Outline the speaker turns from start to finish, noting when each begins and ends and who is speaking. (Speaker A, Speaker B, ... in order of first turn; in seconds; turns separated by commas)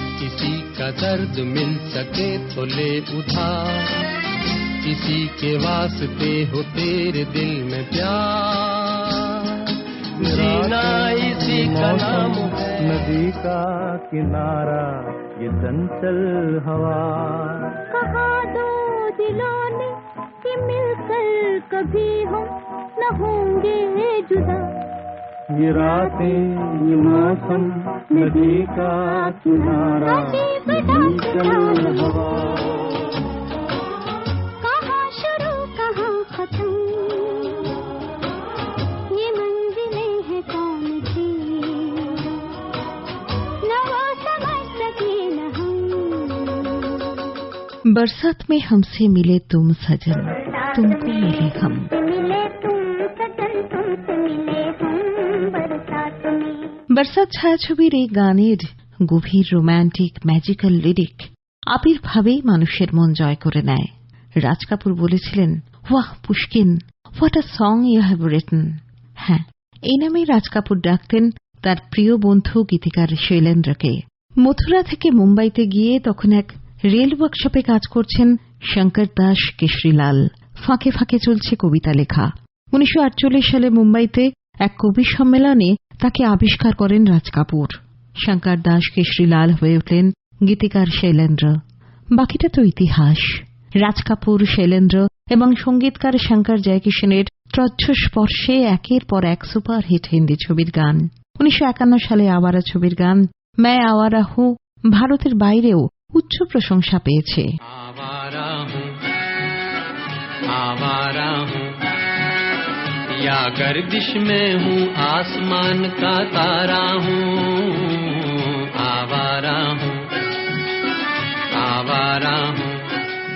Speaker A: 0.2-4.0, Speaker A: 4.8-12.9, Speaker B: 10.2-17.8, Speaker C: 17.9-24.7, Speaker B: 25.6-32.9, Speaker C: 25.8-26.4, Speaker C: 27.1-27.4, Speaker C: 28.1-32.6, Speaker C: 34.6-37.8, Speaker C: 39.1-42.5, Speaker C: 43.6-47.3, Speaker D: 47.9-51.9, Speaker C: 50.5-56.8, Speaker D: 57.0-63.9, Speaker D: 64.4-68.7, Speaker D: 69.2-91.6, Speaker D: 92.2-107.4, Speaker A: 107.6-108.9, Speaker A: 110.5-111.8, Speaker A: 113.1-120.0, Speaker A: 121.5-122.8